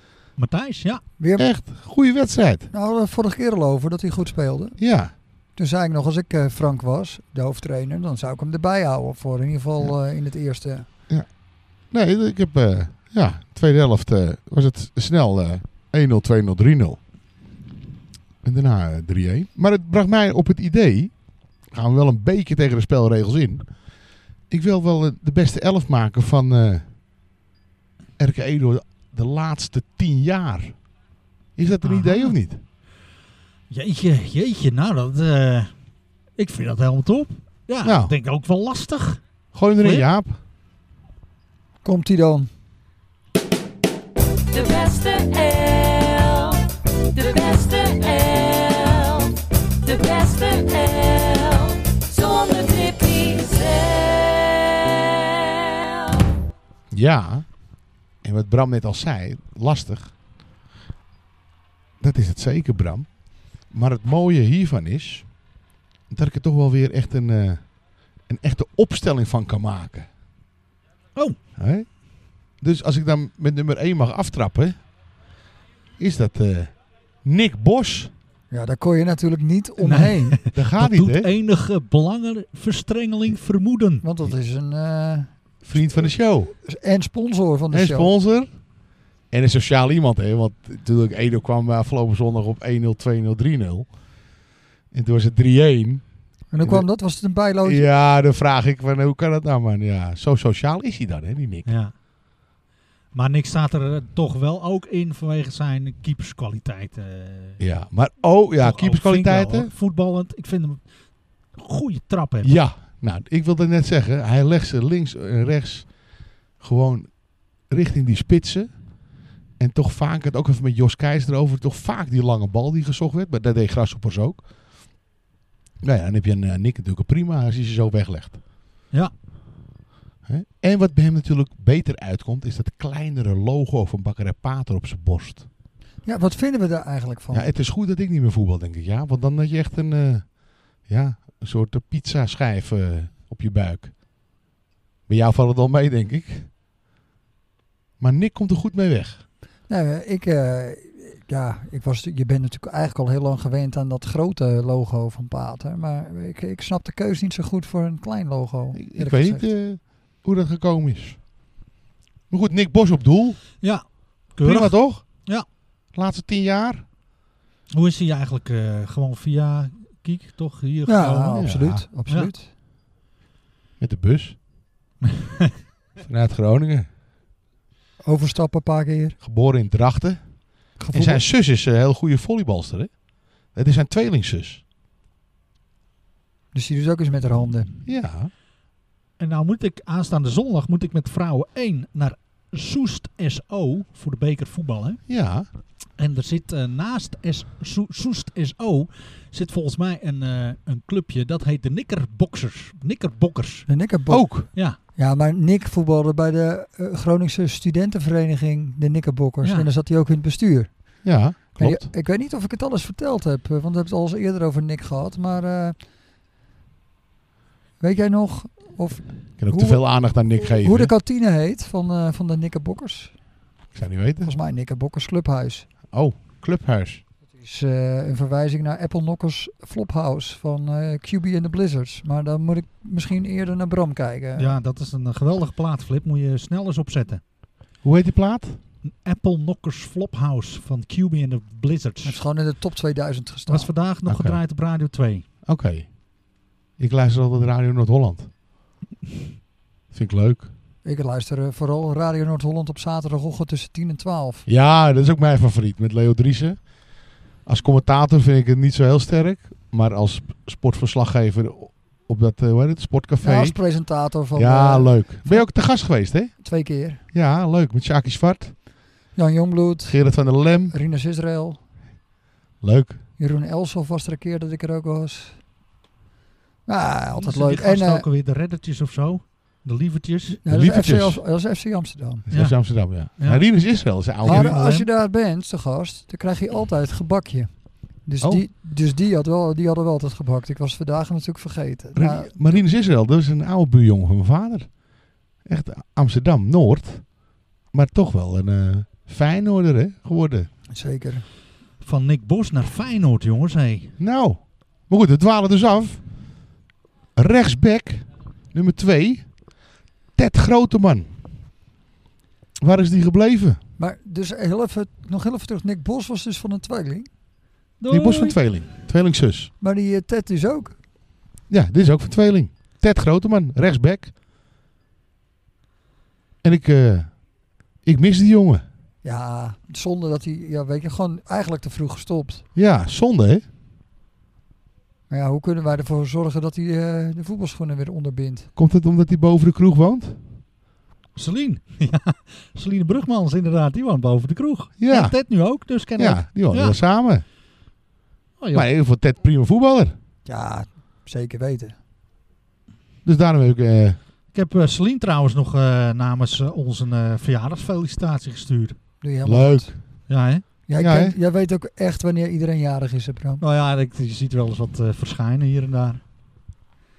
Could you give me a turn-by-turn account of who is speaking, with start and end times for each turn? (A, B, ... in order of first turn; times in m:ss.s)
0:00.4-0:01.0 A
0:01.2-0:01.5 B
0:01.4-0:02.7 C
0:02.7-0:04.8 B
0:04.8-0:05.1 C
0:05.6-0:10.9 B
0:11.8-0:17.0 C
0:18.4-0:23.8 C
0:24.5-0:26.9 C
0:28.2-0:30.8 C
0:31.6-0:32.6 C
0:31.8-0:32.3 A
0:33.7-0:35.7 A
0:36.4-0:39.2 A
0:37.8-0:38.1 C
0:39.5-0:40.4 C
0:39.8-0:40.1 A
0:41.8-0:42.5 B
0:44.5-0:55.0 D
0:55.6-0:56.1 D
0:56.9-0:57.6 C
0:58.2-1:00.1 C
1:02.0-1:05.3 C
1:06.1-1:07.7 C
1:08.2-1:10.1 C
1:11.6-1:14.8 C
1:16.0-1:18.1 C
1:18.5-1:20.4 B
1:19.8-1:24.0 A
1:20.5-1:21.3 C
1:24.0-1:28.1 B
1:25.6-1:26.5 C
1:27.7-1:28.5 C
1:29.3-1:33.9 C
1:34.9-1:36.0 C
1:36.5-1:37.9 B
1:36.6-1:36.9 C
1:37.6-1:41.7 C
1:41.6-1:41.9 A
1:43.1-1:47.6 A
1:47.6-1:49.7 C
1:48.6-1:50.8 A
1:51.5-1:52.6 A
1:52.4-1:55.9 C
1:56.6-1:58.7 C
1:59.6-2:04.4 C
2:05.8-2:08.4 C
2:10.2-2:15.4 C
2:16.0-2:17.5 B
2:17.3-2:23.9 C
2:25.1-2:26.5 C
2:28.0-2:29.2 C
2:29.7-2:39.4 B
2:38.7-2:41.2 C
2:42.3-2:43.4 C
2:43.6-2:45.4 A
2:44.4-2:45.2 C
2:45.9-2:46.8 C
2:47.7-2:51.5 A
2:50.8-2:52.5 B
2:51.4-2:51.8 C
2:53.8-2:54.4 C
2:55.0-2:55.5 A
2:56.0-2:56.9 C
2:58.0-2:59.2 B
2:59.2-3:00.2 C
3:00.8-3:01.2 B
3:00.9-3:02.9 C
3:03.5-3:04.6 C
3:06.5-3:07.7 B
3:07.8-3:08.3 C
3:09.2-3:15.0 A
3:15.1-3:15.5 C
3:16.0-3:23.7 A
3:23.7-3:30.7 B
3:24.1-3:24.5 C
3:29.4-3:29.7 A
3:31.0-3:31.9 C
3:31.5-3:35.8 B
3:37.8-3:43.1 B
3:39.4-3:40.9 C
3:43.7-3:44.3 C
3:44.2-3:45.7 B
3:45.9-3:47.0 C
3:47.4-3:54.5 B
3:54.4-3:57.2 A
3:57.8-3:58.6 C
3:58.9-4:02.2 A
4:02.0-4:03.7 B
4:03.5-4:05.2 A
4:04.0-4:04.4 C
4:05.4-4:05.9 C
4:06.8-4:08.3 C
4:09.9-4:10.5 C
4:10.8-4:14.4 B
4:14.5-4:16.7 C
4:17.4-4:23.6 C
4:23.2-4:25.5 B
4:24.3-4:26.3 C
4:26.3-4:27.0 B
4:27.1-4:28.6 C
4:29.1-4:31.6 B
4:29.9-4:30.7 C
4:32.6-4:33.0 C
4:33.2-4:35.4 B
4:36.6-4:38.0 B
4:37.2-4:40.4 A
4:40.4-4:42.2 B
4:40.5-4:41.2 C
4:42.3-4:44.6 C
4:42.3-4:43.4 A
4:44.1-4:44.9 A
4:44.2-4:52.6 B
4:51.9-4:54.7 C
4:55.4-4:57.1 C
4:57.7-5:00.5 C
5:00.7-5:01.2 B
5:01.8-5:03.9 A
5:04.0-5:06.0 C
5:07.2-5:09.3 C
5:10.2-5:11.1 C
5:12.6-5:13.6 C
5:13.8-5:17.1 B
5:17.8-5:18.4 A
5:17.9-5:19.5 C
5:19.6-5:20.8 B
5:21.5-5:24.1 C
5:26.4-5:27.2 C
5:27.8-5:28.6 C
5:29.0-5:32.4 B
5:32.6-5:33.4 C
5:35.1-5:38.5 B
5:38.6-5:40.2 C
5:41.2-5:46.8 A
5:44.8-5:45.2 C
5:46.0-5:47.2 C
5:48.4-5:48.7 A
5:48.5-5:49.9 C
5:50.2-5:51.8 B
5:53.0-5:54.0 C
5:54.3-5:58.8 A
5:59.0-5:59.7 B
5:59.2-5:59.8 C
6:00.1-6:00.4 A
6:00.7-6:03.4 B
6:00.8-6:01.2 C
6:03.4-6:06.0 A